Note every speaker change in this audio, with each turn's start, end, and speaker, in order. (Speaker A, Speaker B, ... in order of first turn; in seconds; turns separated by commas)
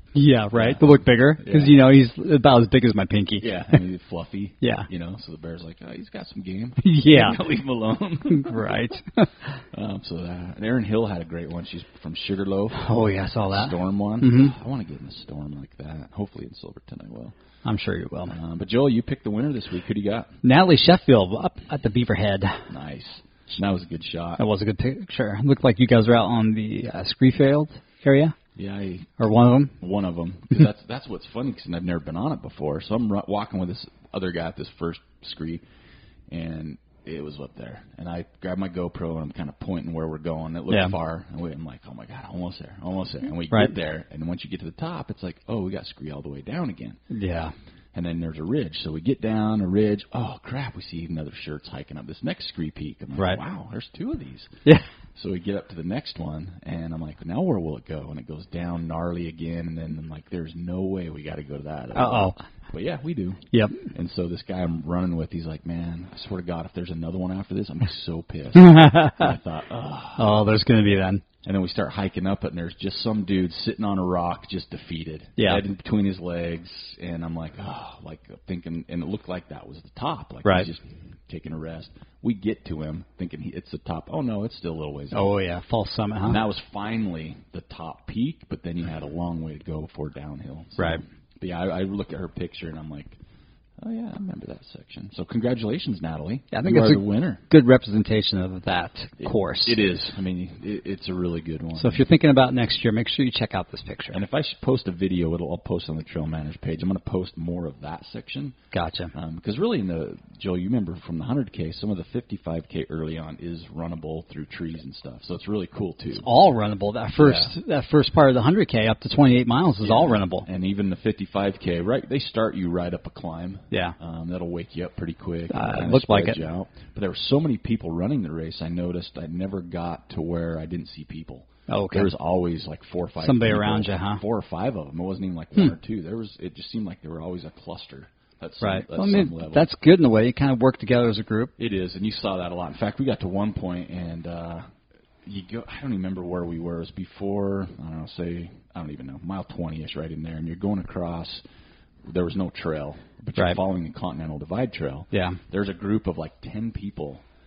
Speaker A: 0.1-3.8, Speaker B: 0.5-1.8, Speaker B: 3.4-8.8, Speaker A: 4.6-4.9, Speaker A: 6.8-7.4, Speaker A: 8.3-9.5, Speaker B: 9.7-12.9, Speaker A: 12.7-14.5, Speaker B: 13.5-17.3, Speaker A: 17.6-18.3, Speaker B: 18.3-20.3, Speaker A: 20.4-22.6, Speaker B: 22.7-24.4, Speaker A: 24.4-28.3, Speaker B: 28.6-29.2, Speaker A: 29.2-29.8, Speaker B: 29.8-35.6, Speaker B: 36.3-47.0, Speaker A: 40.7-40.9, Speaker A: 47.1-47.5, Speaker B: 47.9-70.4, Speaker A: 61.9-62.4, Speaker A: 63.5-63.9, Speaker A: 68.5-69.3, Speaker A: 70.2-71.2, Speaker B: 71.4-85.3, Speaker A: 85.1-86.4, Speaker B: 86.2-93.2, Speaker B: 93.8-97.4, Speaker A: 96.5-99.8, Speaker B: 99.2-102.0, Speaker A: 101.8-104.2, Speaker B: 104.1-108.5, Speaker A: 108.7-109.1, Speaker B: 109.1-116.3, Speaker A: 116.1-120.5, Speaker B: 117.2-117.5, Speaker B: 119.8-139.7, Speaker A: 123.7-124.0, Speaker A: 125.5-126.4, Speaker A: 131.7-132.1, Speaker A: 133.2-134.2, Speaker A: 138.6-141.5, Speaker B: 141.6-144.7, Speaker B: 145.2-151.4, Speaker B: 152.0-157.2, Speaker A: 155.1-155.4